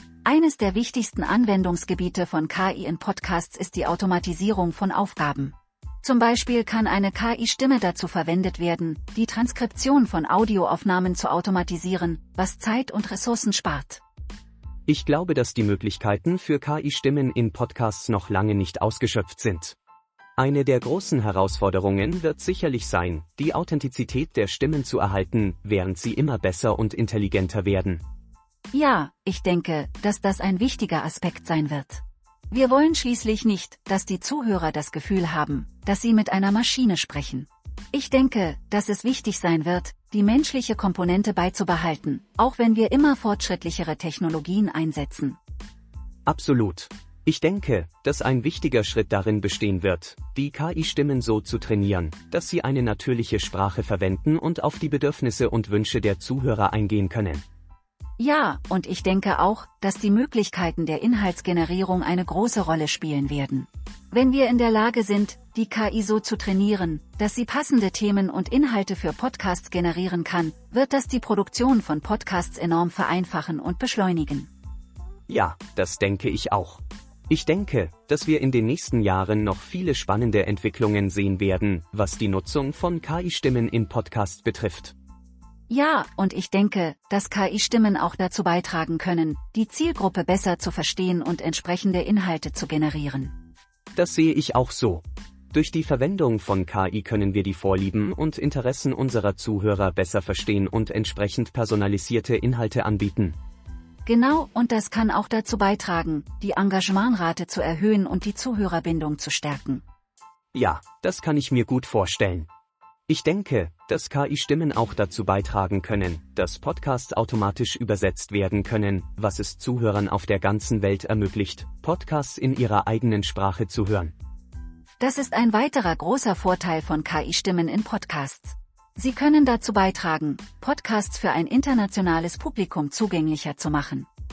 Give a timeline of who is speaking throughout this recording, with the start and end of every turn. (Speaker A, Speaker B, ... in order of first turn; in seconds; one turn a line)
Speaker A: 0.2-14.0
Speaker B: 14.9-19.8
Speaker B: 20.4-28.0
Speaker A: 28.7-45.4
Speaker B: 46.3-57.4
Speaker A: 58.2-74.5
Speaker B: 75.3-84.9
Speaker A: 85.7-93.3
Speaker B: 93.9-103.4
Speaker A: 104.0-109.8
Speaker B: 110.5-112.5
Speaker B: 113.1-124.1
Speaker A: 125.0-134.1